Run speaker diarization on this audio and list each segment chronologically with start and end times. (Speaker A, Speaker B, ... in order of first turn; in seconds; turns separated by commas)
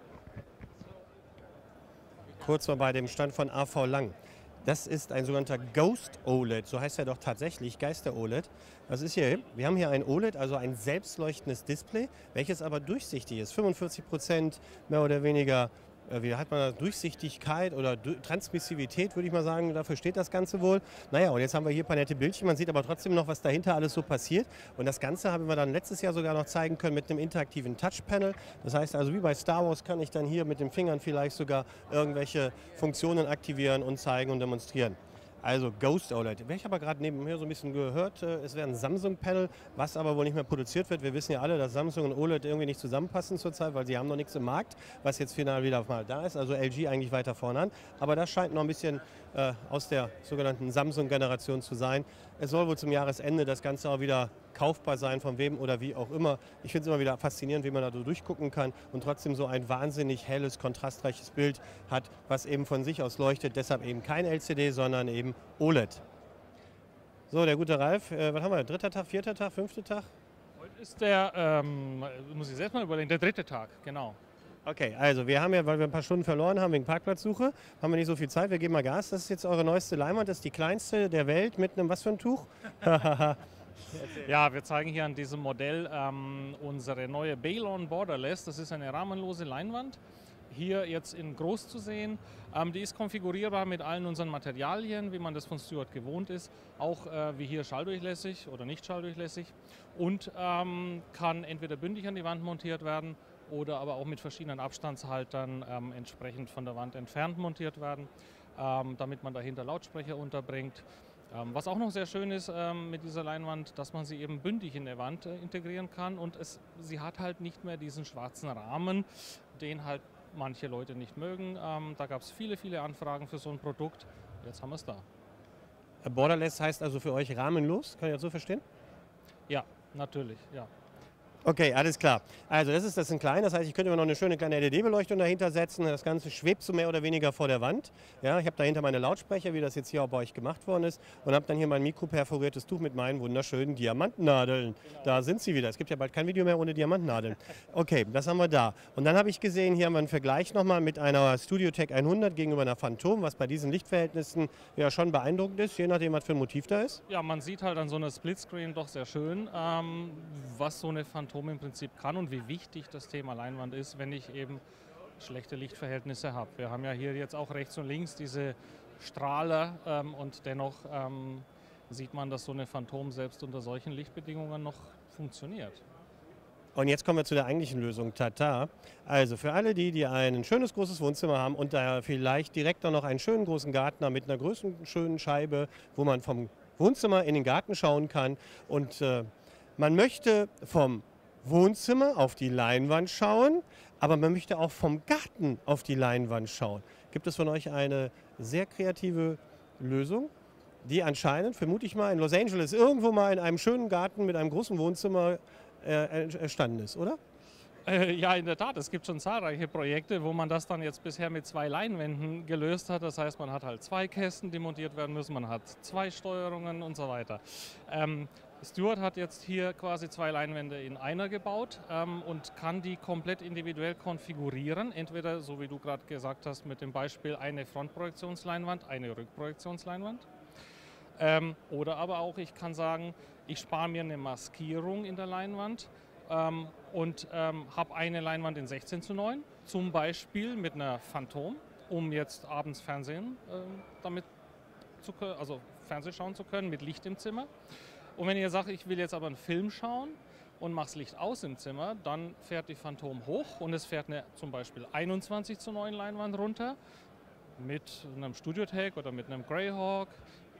Speaker A: 2.4-66.0, Speaker A: 67.3-70.1, Speaker B: 70.6-74.2, Speaker A: 74.7-83.4, Speaker A: 83.9-84.2, Speaker B: 84.1-90.0, Speaker B: 90.5-125.1, Speaker A: 126.0-128.6, Speaker B: 129.5-130.7, Speaker A: 131.4-157.0, Speaker B: 157.1-164.6, Speaker B: 165.2-175.8, Speaker A: 176.8-200.3, Speaker A: 200.8-207.2, Speaker B: 207.8-230.3, Speaker B: 231.2-244.3, Speaker B: 245.0-247.5, Speaker B: 248.2-256.8, Speaker B: 257.6-260.2